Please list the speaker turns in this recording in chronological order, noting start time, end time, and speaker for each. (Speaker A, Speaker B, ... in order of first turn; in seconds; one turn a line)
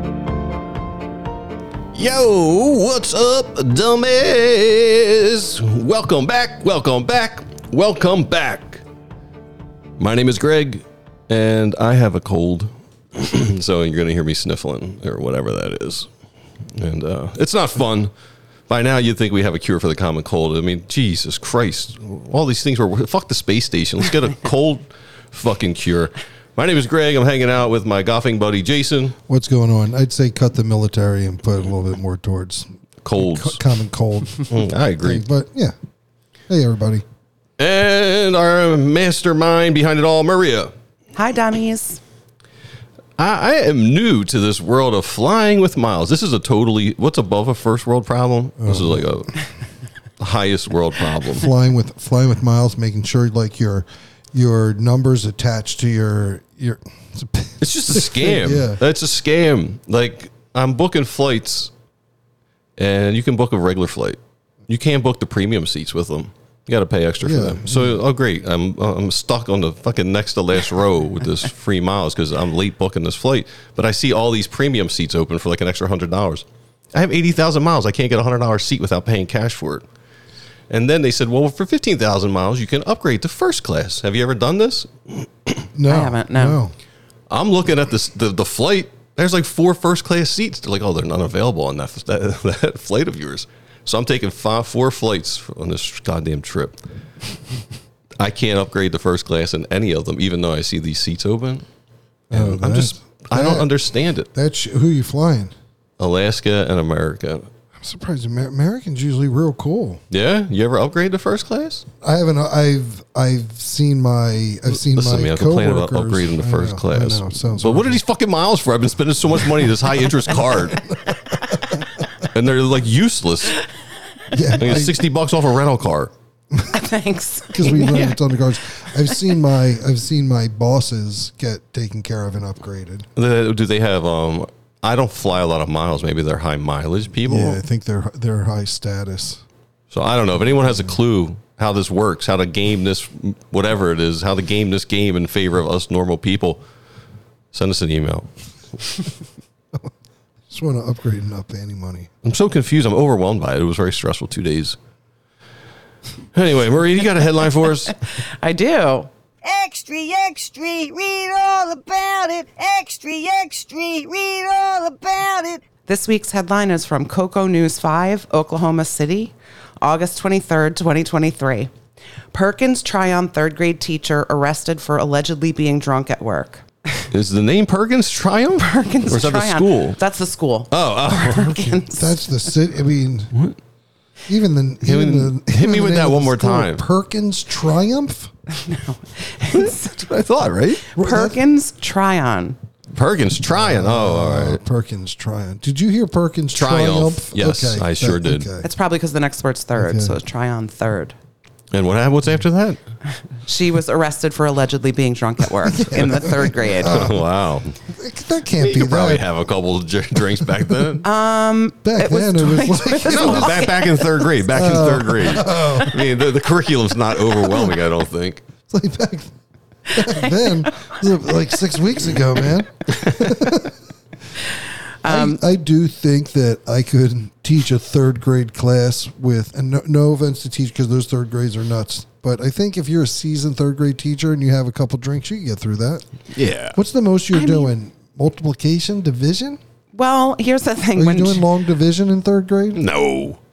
Speaker A: 1.9-8.8
Speaker A: 10.0-16.1
Speaker A: 16.7-18.1
Speaker A: 18.7-29.1
Speaker B: 29.3-35.7
Speaker A: 33.0-33.6
Speaker A: 34.4-35.2
Speaker B: 36.5-37.0
Speaker A: 37.6-40.7
Speaker C: 41.1-42.0
Speaker A: 43.2-49.4
Speaker B: 48.6-49.0
Speaker A: 50.2-51.5
Speaker B: 51.3-58.8
Speaker A: 57.6-61.7
Speaker A: 62.8-79.8
Speaker B: 67.2-68.0
Speaker A: 80.7-85.5
Speaker B: 85.7-86.7
Speaker C: 85.9-86.6
Speaker A: 87.3-96.8
Speaker A: 98.2-101.6
Speaker B: 102.3-103.7
Speaker A: 102.3-104.3
Speaker B: 104.3-105.5
Speaker A: 106.0-107.5
Speaker B: 107.8-110.0
Speaker A: 110.1-111.8
Speaker B: 112.0-118.0
Speaker A: 114.7-120.8
Speaker B: 120.3-122.2
Speaker A: 122.3-123.6
Speaker B: 124.3-125.0
Speaker A: 124.6-126.1
Speaker C: 126.7-128.2
Speaker B: 127.5-133.1
Speaker A: 133.2-137.6
Speaker B: 137.2-139.4
Speaker A: 139.9-146.6
Speaker A: 147.5-148.9
Speaker B: 150.5-152.1
Speaker A: 152.2-154.8
Speaker A: 156.3-158.0
Speaker C: 158.1-159.1
Speaker D: 159.4-165.6
Speaker C: 165.8-171.7
Speaker C: 172.3-177.1
Speaker A: 177.1-180.0
Speaker C: 178.6-182.3
Speaker A: 180.7-181.6
Speaker B: 181.4-183.4
Speaker B: 184.3-188.3
Speaker A: 184.8-186.8
Speaker C: 188.5-190.1
Speaker A: 189.5-190.9
Speaker C: 190.9-192.6
Speaker B: 190.9-191.4
Speaker A: 192.9-194.6
Speaker B: 193.5-198.7
Speaker A: 196.5-198.5
Speaker C: 198.6-201.1
Speaker B: 199.8-200.1
Speaker A: 201.7-202.8
Speaker C: 203.4-207.1
Speaker B: 205.7-207.2
Speaker A: 206.8-207.8
Speaker B: 207.8-209.2
Speaker A: 208.6-211.1
Speaker C: 211.0-214.1
Speaker B: 211.8-213.8
Speaker A: 213.0-218.4
Speaker B: 214.5-216.0
Speaker B: 218.7-219.3
Speaker C: 219.9-220.9
Speaker B: 219.9-223.8
Speaker C: 225.0-225.4
Speaker B: 225.0-236.0
Speaker A: 236.3-236.8
Speaker B: 236.7-239.6
Speaker C: 237.3-237.7
Speaker C: 239.9-241.4
Speaker B: 240.9-242.8
Speaker A: 242.7-243.4